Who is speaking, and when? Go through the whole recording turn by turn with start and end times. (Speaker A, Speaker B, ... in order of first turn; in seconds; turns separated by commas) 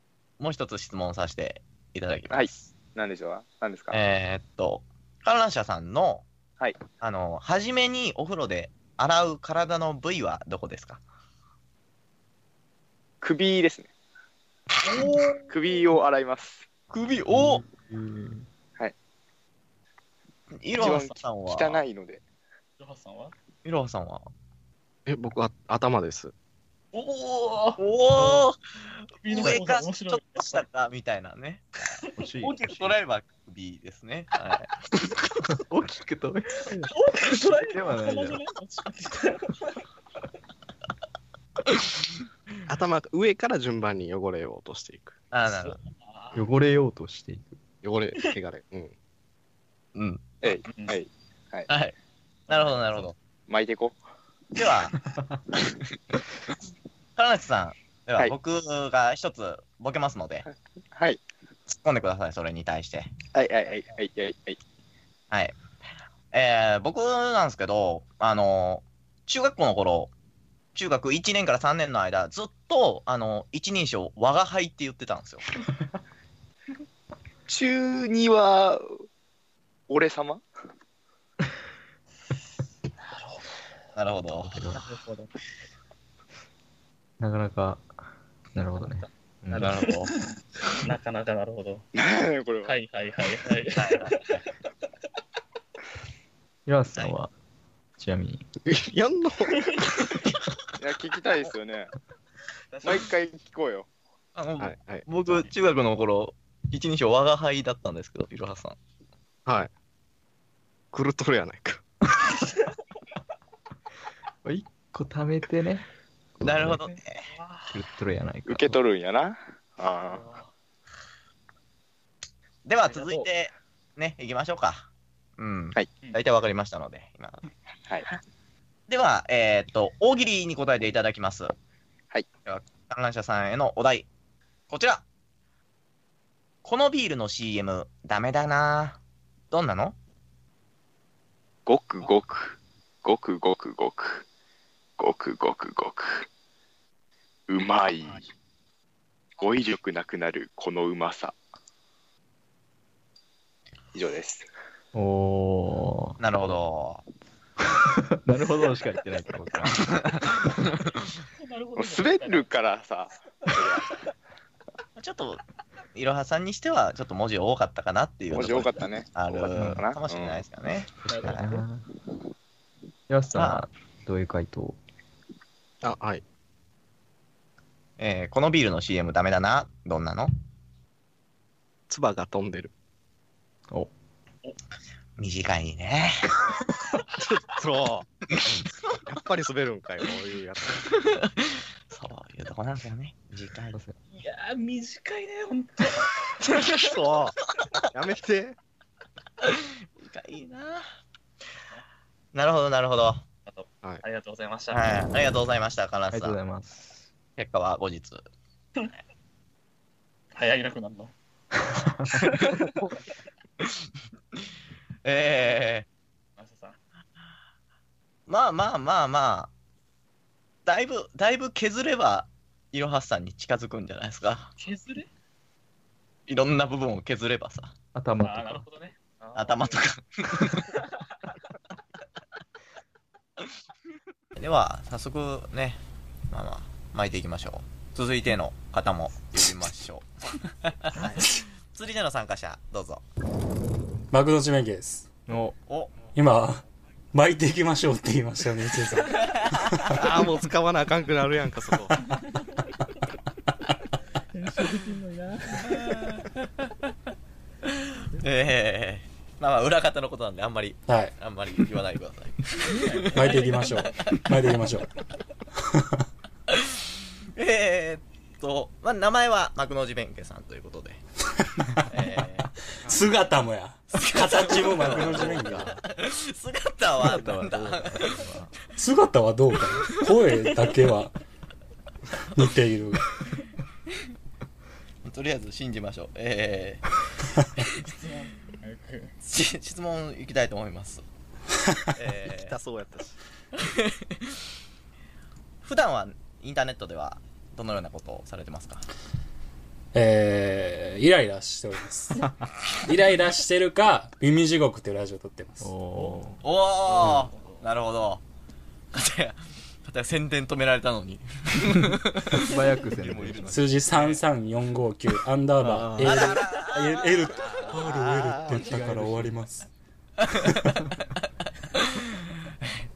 Speaker A: 0.4-2.6, Speaker B: 2.3-4.0, Speaker A: 3.9-6.2, Speaker A: 7.0-11.0, Speaker B: 13.2-13.9, Speaker C: 14.8-15.6, Speaker A: 14.9-15.4, Speaker B: 15.5-16.6, Speaker A: 16.9-17.6, Speaker D: 17.3-18.5, Speaker A: 20.6-21.8, Speaker B: 20.8-22.2, Speaker C: 20.9-21.1, Speaker C: 22.8-23.3, Speaker A: 23.6-24.3, Speaker E: 25.1-26.3, Speaker C: 26.9-28.4, Speaker A: 27.8-28.6, Speaker C: 29.2-30.6, Speaker A: 29.2-31.6, Speaker D: 32.2-32.9, Speaker A: 32.4-34.7, Speaker D: 35.5-38.4, Speaker C: 36.7-39.8, Speaker E: 42.7-45.2, Speaker A: 45.3-45.8, Speaker C: 45.5-46.4, Speaker D: 46.3-47.6, Speaker E: 47.8-48.9, Speaker A: 49.9-50.2, Speaker B: 50.4-51.7, Speaker C: 50.7-51.0, Speaker A: 51.7-51.9, Speaker C: 52.5-53.1, Speaker A: 52.5-53.1, Speaker B: 53.5-54.0, Speaker A: 54.5-54.9, Speaker A: 57.2-60.5, Speaker B: 60.9-61.2, Speaker A: 61.7-63.1, Speaker B: 63.3-64.6, Speaker A: 65.3-65.5, Speaker A: 66.3-70.1, Speaker A: 70.7-75.4, Speaker B: 77.5-78.9, Speaker B: 79.9-80.4, Speaker C: 83.0-83.4, Speaker A: 84.0-84.6, Speaker D: 84.4-84.8, Speaker C: 84.7-85.3, Speaker D: 87.2-87.9, Speaker D: 88.5-89.8, Speaker C: 88.8-90.2, Speaker A: 89.5-90.1, Speaker C: 90.8-91.8, Speaker B: 91.9-92.7, Speaker C: 92.7-94.4, Speaker A: 93.7-94.4, Speaker D: 96.7-97.3, Speaker D: 98.0-98.5, Speaker E: 98.7-99.7, Speaker B: 100.8-101.9, Speaker C: 102.7-103.1, Speaker B: 102.8-103.9, Speaker A: 104.3-108.8, Speaker E: 104.6-105.0, Speaker E: 109.5-109.7, Speaker E: 110.9-111.8, Speaker D: 114.4-115.9, Speaker D: 116.4-116.8, Speaker A: 116.4-117.3, Speaker C: 116.8-117.7, Speaker D: 117.7-118.8, Speaker B: 118.5-120.2, Speaker C: 120.1-120.5, Speaker A: 122.7-127.4, Speaker C: 122.8-123.3, Speaker A: 128.9-131.5, Speaker A: 132.4-134.1, Speaker A: 134.7-135.0, Speaker A: 136.6-139.0, Speaker A: 139.5-139.9, Speaker B: 141.7-144.2, Speaker B: 145.0-146.3, Speaker B: 147.5-148.3, Speaker B: 149.4-151.4, Speaker B: 153.9-154.5, Speaker D: 154.9-156.2, Speaker A: 156.2-157.0, Speaker D: 157.8-160.1, Speaker A: 159.8-160.8, Speaker C: 161.4-162.5, Speaker B: 161.8-164.0, Speaker A: 165.0-165.4, Speaker A: 165.9-171.6, Speaker B: 168.3-170.4, Speaker D: 169.5-169.8, Speaker D: 171.0-171.9, Speaker C: 171.1-171.4, Speaker D: 173.1-174.8, Speaker A: 173.3-173.6, Speaker E: 175.8-176.2, Speaker A: 178.0-180.3, Speaker E: 181.9-182.7, Speaker A: 185.2-186.2, Speaker E: 187.2-188.1, Speaker E: 189.1-190.8, Speaker A: 190.9-193.8, Speaker C: 194.1-196.1, Speaker E: 196.7-197.3, Speaker E: 197.9-198.6, Speaker A: 199.4-200.9, Speaker A: 202.3-203.2, Speaker C: 203.4-205.0, Speaker A: 204.7-206.4, Speaker D: 206.1-207.1, Speaker A: 207.4-208.2, Speaker C: 210.3-211.1, Speaker A: 215.0-215.8, Speaker C: 216.4-216.8, Speaker A: 218.3-219.5, Speaker A: 220.7-224.5, Speaker C: 224.6-225.1, Speaker A: 226.3-227.7, Speaker D: 227.9-228.7, Speaker C: 228.2-229.8, Speaker A: 229.3-230.6, Speaker A: 234.4-240.1, Speaker A: 240.8-243.0, Speaker F: 244.1-245.1, Speaker D: 245.3-245.6, Speaker A: 245.7-245.9, Speaker F: 246.1-250.0, Speaker A: 249.3-249.7, Speaker E: 249.9-251.9, Speaker C: 254.3-256.1, Speaker A: 258.1-263.4, Speaker F: 260.9-261.1, Speaker C: 262.6-264.2, Speaker F: 263.1-264.9, Speaker F: 265.7-265.9, Speaker A: 266.5-266.7, Speaker A: 267.3-271.0, Speaker A: 271.9-272.5, Speaker F: 272.9-275.8, Speaker A: 273.9-278.2, Speaker D: 275.0-275.8, Speaker D: 277.0-278.5, Speaker F: 278.8-281.1, Speaker F: 282.3-283.1, Speaker A: 285.0-286.9, Speaker C: 287.7-289.1, Speaker A: 289.2-291.0, Speaker A: 291.9-292.5, Speaker E: 292.4-293.2, Speaker A: 293.6-294.3, Speaker A: 295.6-298.9, Speaker F: 299.9-302.2, Speaker F: 302.8-305.7, Speaker D: 305.6-306.4, Speaker C: 305.9-307.6, Speaker A: 306.4-308.2, Speaker A: 308.9-312.4, Speaker D: 312.3-313.7, Speaker A: 313.0-314.2, Speaker F: 313.5-319.7, Speaker D: 315.6-316.4, Speaker A: 316.0-318.5, Speaker E: 317.5-318.3, Speaker D: 318.4-319.4, Speaker A: 320.2-320.8, Speaker A: 321.7-322.0